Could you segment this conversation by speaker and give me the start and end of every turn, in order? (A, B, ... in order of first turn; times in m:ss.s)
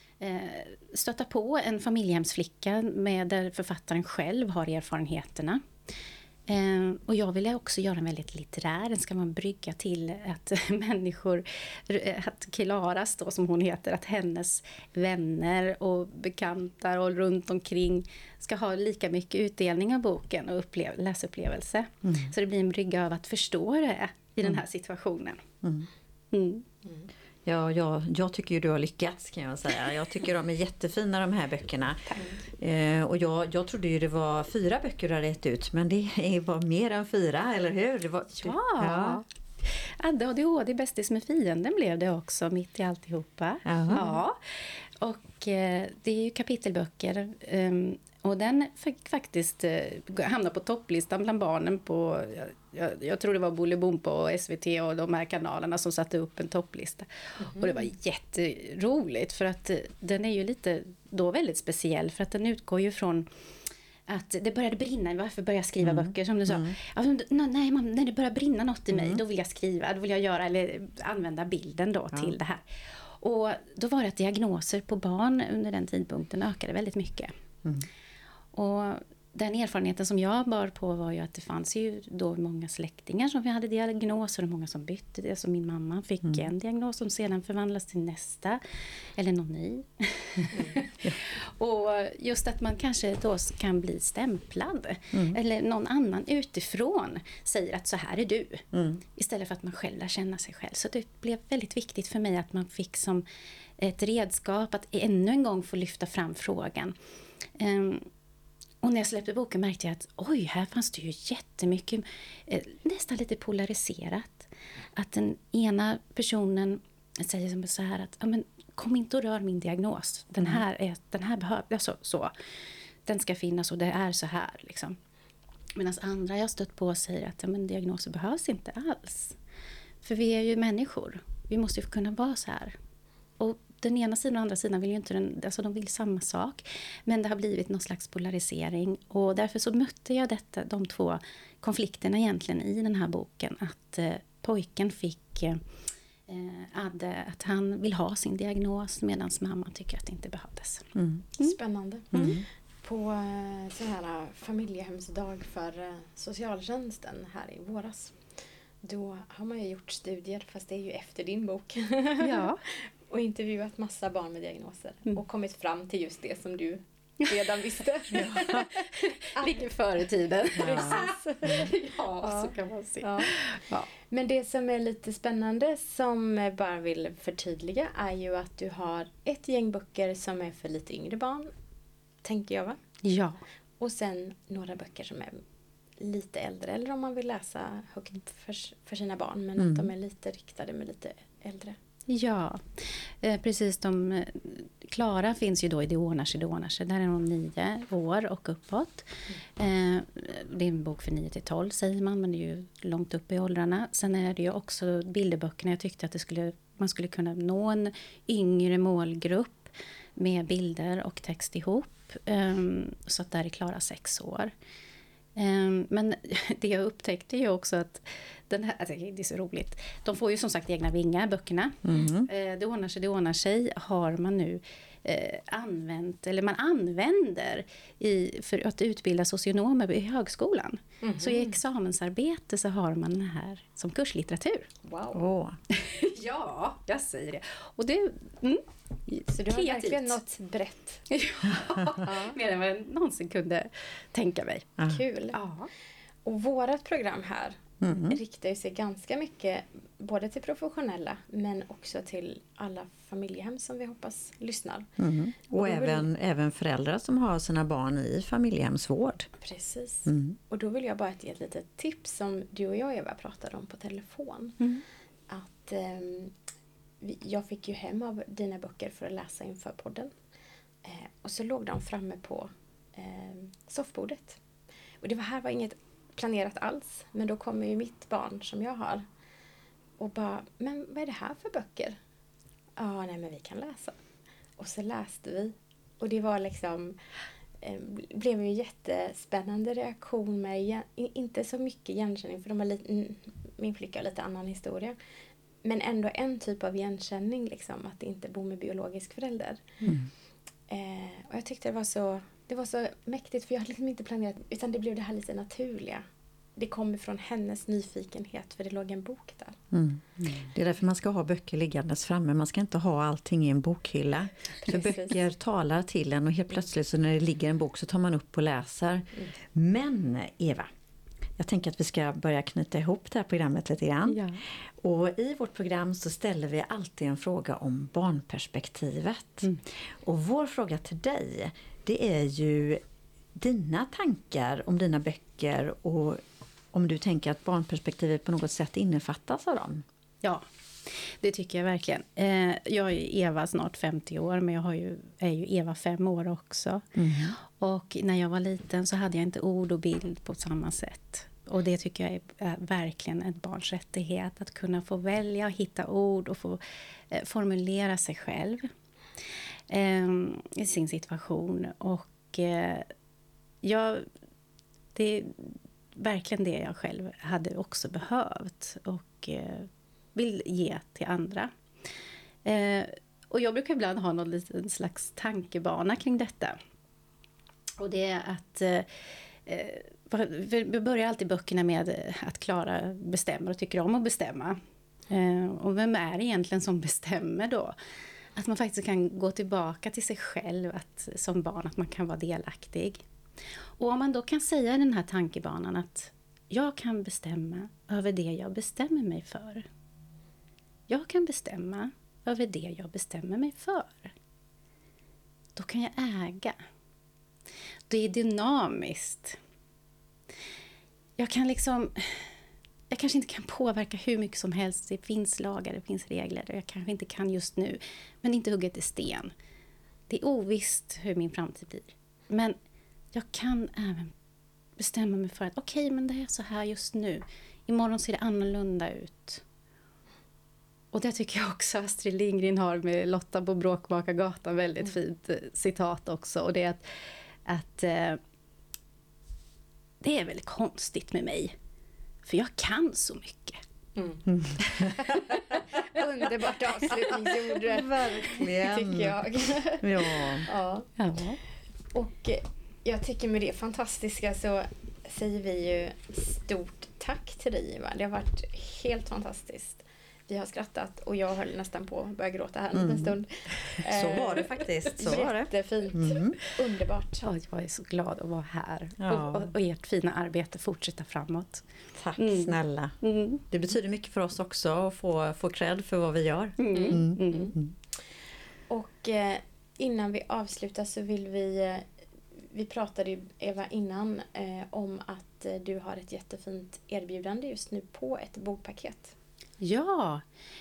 0:00.2-0:05.6 A
0:06.5-0:25.4 A
0:22.0-0:22.3 B
0:25.6-0:25.9 B
0:26.3-0:26.7 A
0:27.4-0:39.2 B
0:38.4-1:03.3 A
0:43.6-0:44.0 B
0:43.9-0:44.2 C
0:57.4-0:57.9 C
1:04.1-1:17.3 A
1:05.8-1:06.8 B
1:08.9-1:09.2 B
1:18.5-1:43.2 A
1:35.1-1:35.4 B
1:38.7-1:39.0 B
1:43.8-1:47.0 A
1:47.6-1:48.1 A
1:48.8-2:02.3 A
2:03.1-2:05.0 A
2:05.8-2:09.4 A
2:10.0-2:12.8 A
2:13.4-2:25.6 A
2:26.3-2:31.6 A
2:31.0-2:31.3 B
2:31.4-2:38.2 C
2:32.1-2:32.4 B
2:32.1-2:32.4 A
2:38.8-2:49.6 C
2:42.2-2:42.6 A
2:48.1-2:53.9 A
2:48.1-2:48.7 B
2:50.6-2:51.7 B
2:50.6-3:01.5 C
3:02.2-3:02.8 C
3:03.0-3:03.4 A
3:03.8-3:05.4 C
3:06.0-3:11.8 C
3:09.6-3:09.9 B
3:12.1-3:34.5 A
3:35.4-3:54.7 A
3:41.8-3:42.3 B
3:51.0-3:51.6 C
3:54.8-3:55.3 C
3:55.1-3:55.6 B
3:55.7-4:00.2 A
3:59.3-4:01.1 C
4:01.1-4:04.7 A
4:02.0-4:02.4 C
4:04.8-4:05.4 C
4:05.3-4:05.7 A
4:06.2-4:14.9 C
4:07.8-4:08.2 B
4:15.0-4:19.3 B
4:15.5-4:16.1 C
4:19.4-4:24.6 C
4:20.1-4:20.4 B
4:25.3-4:26.4 C
4:27.0-4:30.1 C
4:30.8-4:34.4 C
4:35.0-4:39.0 C
4:40.0-4:42.0 C
4:42.8-4:44.0 C
4:44.6-4:47.0 C
4:47.6-4:55.0 C
4:55.6-4:59.8 C
5:00.7-5:06.0 C
5:06.6-5:09.6 C
5:09.7-5:20.7 B
5:14.6-5:15.2 C
5:21.4-5:32.8 B
5:24.1-5:24.4 A
5:33.3-5:36.2 B
5:36.7-5:39.8 B
5:40.2-5:58.7 A
5:47.0-5:47.4 B
5:59.7-6:02.9 A
6:03.6-6:04.1 A
6:05.0-6:11.5 A
6:12.4-6:16.6 A
6:17.8-6:18.9 A
6:19.5-6:27.8 A
6:28.4-6:33.0 A
6:33.8-6:39.7 A
6:40.9-6:44.1 A
6:45.6-6:46.6 A
6:47.9-6:49.4 A
6:51.2-6:52.3 A
6:52.9-6:59.3 A
7:00.1-7:02.6 A
7:03.1-7:04.1 A
7:04.8-7:09.4 A
7:10.9-7:18.2 A
7:20.0-7:21.5 A
7:22.2-7:23.6 A
7:24.0-7:24.2 C
7:24.3-7:25.3 B
7:24.6-7:26.3 A
7:24.8-7:30.9 C
7:27.1-7:27.4 A
7:27.7-7:30.5 B
7:31.0-7:31.4 A
7:31.9-7:47.2 C
7:42.7-7:43.2 B
7:43.8-7:46.4 B
7:47.2-7:51.7 A
7:49.0-7:49.5 B
7:52.0-7:53.0 B
7:52.2-7:53.4 A
7:53.5-7:57.7 B
7:56.6-7:57.5 A
7:56.7-7:57.5 C
7:58.7-8:09.1 C
8:09.6-8:10.2 A